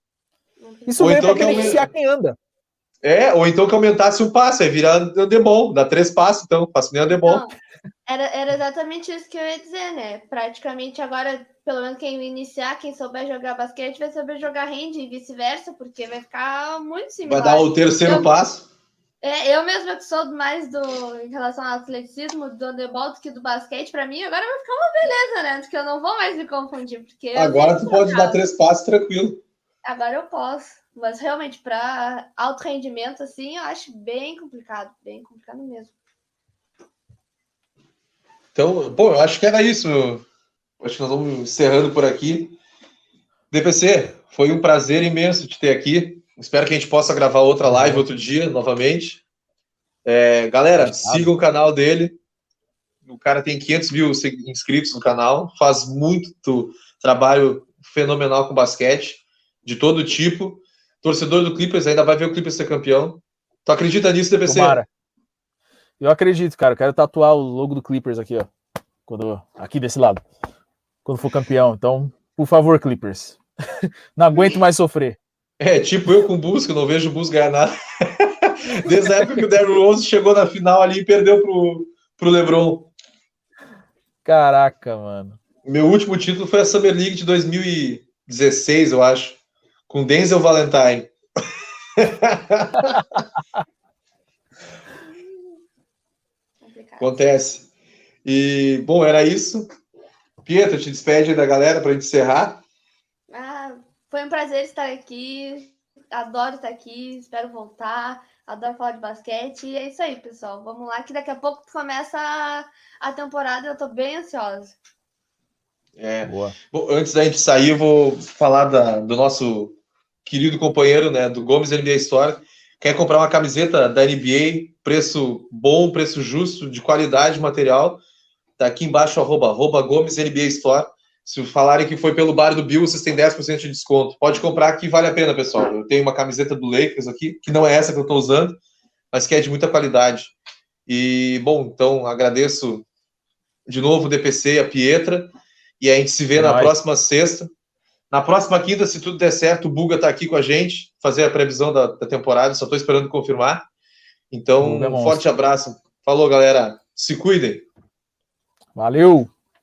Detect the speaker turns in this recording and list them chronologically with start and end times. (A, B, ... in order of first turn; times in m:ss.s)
0:00.6-0:01.8 A
0:00.9-0:02.4 B
0:01.0-0:01.9 C
0:03.0-0:07.4 C
0:07.1-0:07.5 A
0:08.0-0:18.3 A
0:17.2-0:18.6 C
0:19.2-0:28.4 A
0:27.3-0:29.4 C
0:29.8-0:35.9 A
0:38.5-0:40.2 C
0:40.8-0:42.6 C
0:43.5-0:49.2 C
0:47.6-0:48.0 B
0:50.0-0:52.2 C
0:50.8-0:51.3 B
0:53.0-1:04.8 C
1:04.4-1:04.9 B
1:06.0-1:08.5 B
1:09.1-1:10.2 B
1:11.0-1:13.4 B
1:14.1-1:15.2 B
1:15.6-1:22.9 C
1:18.9-1:19.3 B
1:24.2-1:25.4 B
1:25.6-1:31.1 C
1:32.0-1:33.0 C
1:32.8-1:33.2 B
1:36.6-1:37.1 A
1:37.0-1:37.6 C
1:38.2-1:39.7 C
1:40.4-1:42.6 C
1:43.3-1:54.8 A
1:56.0-2:08.0 C
1:56.2-1:56.6 B
2:08.6-2:18.6 C
2:19.1-2:20.3 C
2:20.9-2:22.8 C
2:23.7-2:27.5 C
2:26.3-2:26.7 B
2:28.1-2:33.6 C
2:34.3-2:37.6 C
2:34.6-2:35.2 B
2:38.8-2:39.3 B